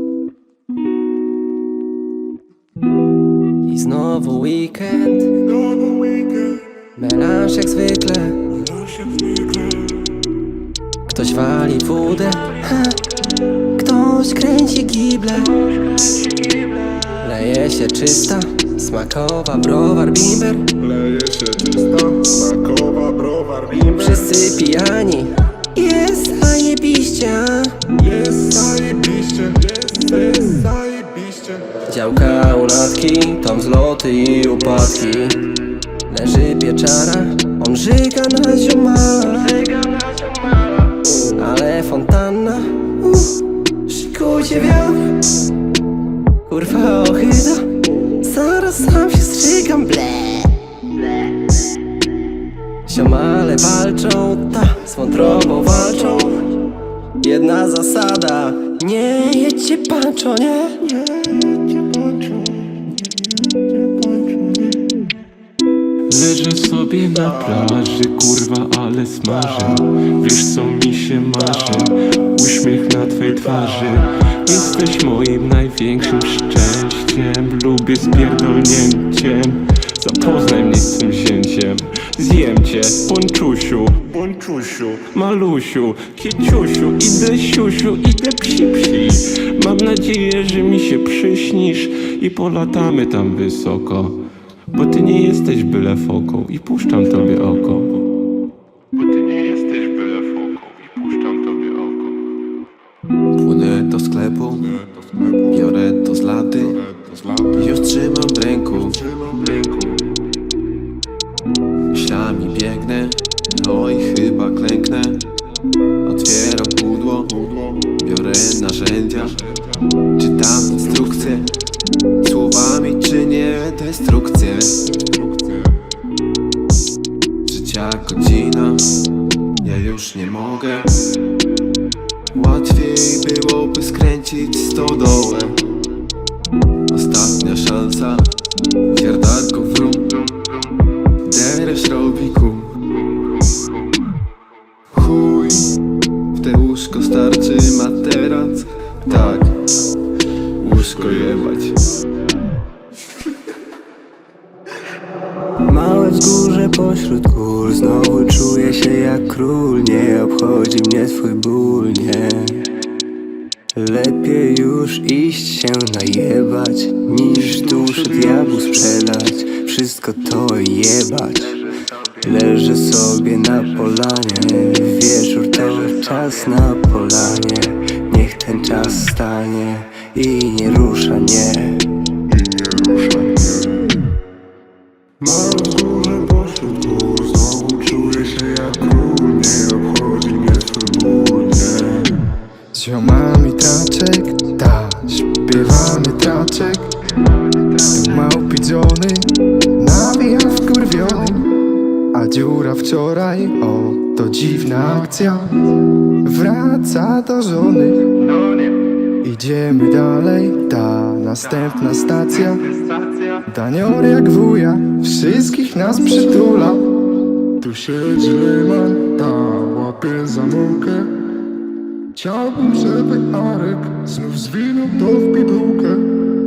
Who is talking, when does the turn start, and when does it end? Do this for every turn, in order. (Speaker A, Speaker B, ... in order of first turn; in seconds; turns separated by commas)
Speaker A: 3.6-5.4, Speaker A: 7.0-8.6, Speaker A: 11.1-13.0, Speaker A: 13.6-15.7, Speaker A: 17.1-20.7, Speaker B: 20.8-24.0, Speaker A: 23.9-27.9, Speaker B: 28.0-31.7, Speaker A: 31.9-35.4, Speaker A: 36.1-40.3, Speaker A: 41.2-45.1, Speaker A: 46.5-50.5, Speaker A: 52.9-56.5, Speaker A: 57.2-60.9, Speaker B: 61.3-61.9, Speaker C: 66.1-94.2, Speaker C: 94.7-98.0, Speaker C: 99.0-102.2, Speaker D: 103.4-104.8, Speaker B: 104.8-105.5, Speaker D: 105.5-106.8, Speaker B: 106.9-107.5, Speaker D: 107.5-109.0, Speaker B: 109.0-110.0, Speaker D: 111.9-115.3, Speaker D: 116.0-117.4, Speaker D: 117.9-119.3, Speaker D: 120.2-121.5, Speaker D: 122.2-124.8, Speaker B: 125.0-125.8, Speaker D: 127.5-128.8, Speaker D: 129.6-130.9, Speaker D: 132.3-135.6, Speaker D: 136.9-138.3, Speaker D: 138.9-140.3, Speaker D: 141.3-142.8, Speaker D: 144.9-145.7, Speaker D: 146.3-149.6, Speaker D: 150.6-151.8, Speaker E: 155.6-162.8, Speaker E: 163.8-181.9, Speaker B: 167.3-168.9, Speaker B: 182.3-184.1, Speaker B: 185.2-192.3, Speaker F: 192.7-197.0, Speaker F: 197.8-201.5, Speaker F: 202.1-205.6, Speaker F: 206.2-208.1, Speaker F: 209.2-216.8, Speaker B: 217.6-221.2, Speaker B: 222.2-226.1